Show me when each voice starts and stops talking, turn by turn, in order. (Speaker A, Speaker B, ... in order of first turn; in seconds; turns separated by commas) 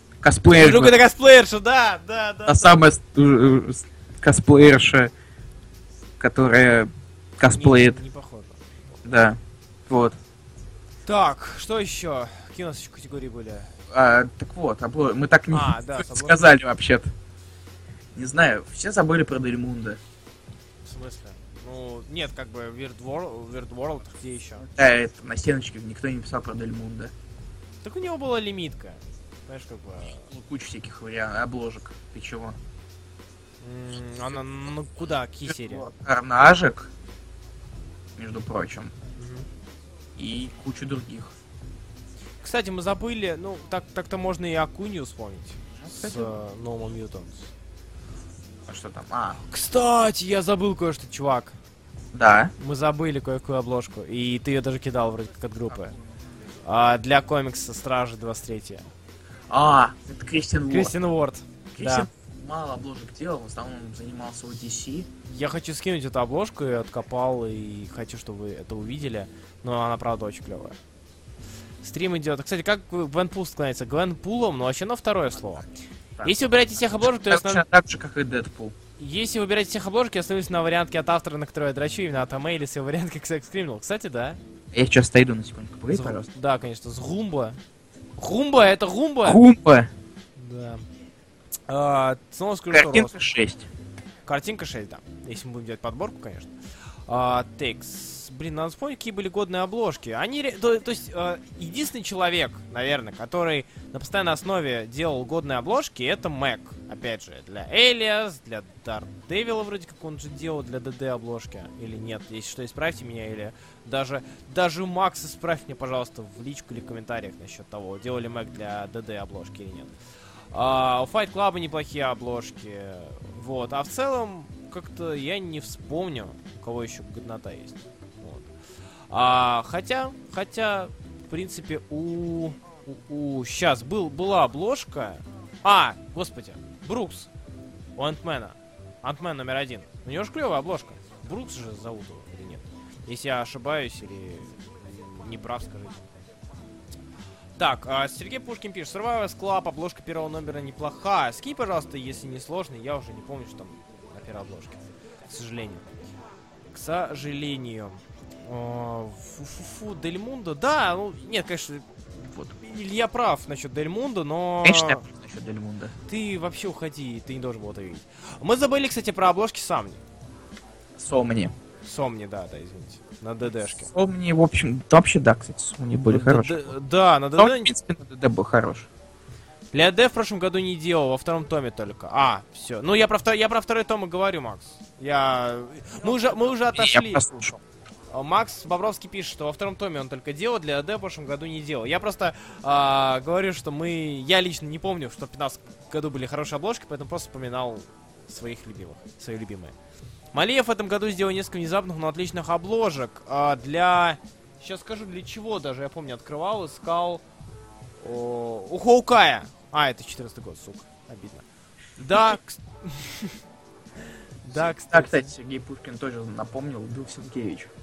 Speaker A: 0.2-1.0, Speaker B: 0.6-2.8, Speaker A: 2.5-5.1, Speaker A: 6.2-8.0, Speaker B: 7.5-8.6, Speaker A: 9.1-10.2, Speaker B: 11.1-13.7, Speaker A: 13.9-17.1, Speaker B: 15.5-16.4, Speaker A: 18.1-20.0, Speaker B: 20.8-24.6, Speaker A: 24.6-27.1, Speaker B: 27.8-30.3, Speaker A: 30.3-32.6, Speaker B: 33.6-35.8, Speaker A: 35.5-36.9, Speaker A: 38.2-38.9, Speaker B: 39.1-39.5, Speaker A: 40.2-41.3, Speaker B: 42.4-47.5, Speaker A: 45.8-46.3, Speaker A: 48.7-49.4, Speaker B: 49.4-51.5, Speaker A: 52.1-52.5, Speaker B: 52.6-55.9, Speaker B: 56.6-58.9, Speaker A: 59.5-60.9, Speaker B: 60.7-62.1, Speaker A: 61.7-65.1, Speaker B: 65.3-70.8, Speaker B: 71.8-75.6, Speaker A: 76.2-78.8, Speaker B: 76.2-77.6, Speaker B: 79.0-84.4, Speaker A: 84.7-86.3, Speaker B: 85.9-87.6, Speaker B: 88.2-89.4, Speaker A: 89.2-89.9, Speaker B: 90.4-90.8, Speaker B: 91.7-93.1, Speaker A: 92.7-93.7, Speaker B: 94.2-96.5, Speaker B: 97.1-119.9, Speaker B: 120.5-128.5, Speaker B: 129.1-137.3, Speaker B: 138.0-146.0, Speaker B: 147.6-155.8, Speaker B: 156.7-161.8, Speaker B: 162.5-165.0, Speaker A: 164.6-165.9, Speaker B: 166.1-170.0, Speaker A: 171.0-171.5, Speaker B: 171.8-173.9, Speaker A: 173.9-176.7, Speaker B: 176.1-177.7, Speaker A: 177.4-178.9, Speaker B: 179.7-187.5, Speaker A: 186.0-187.6, Speaker B: 188.1-199.7, Speaker B: 200.3-207.2, Speaker B: 208.0-211.4, Speaker A: 212.0-212.4, Speaker B: 212.0-213.4, Speaker B: 214.4-215.3, Speaker A: 214.5-217.7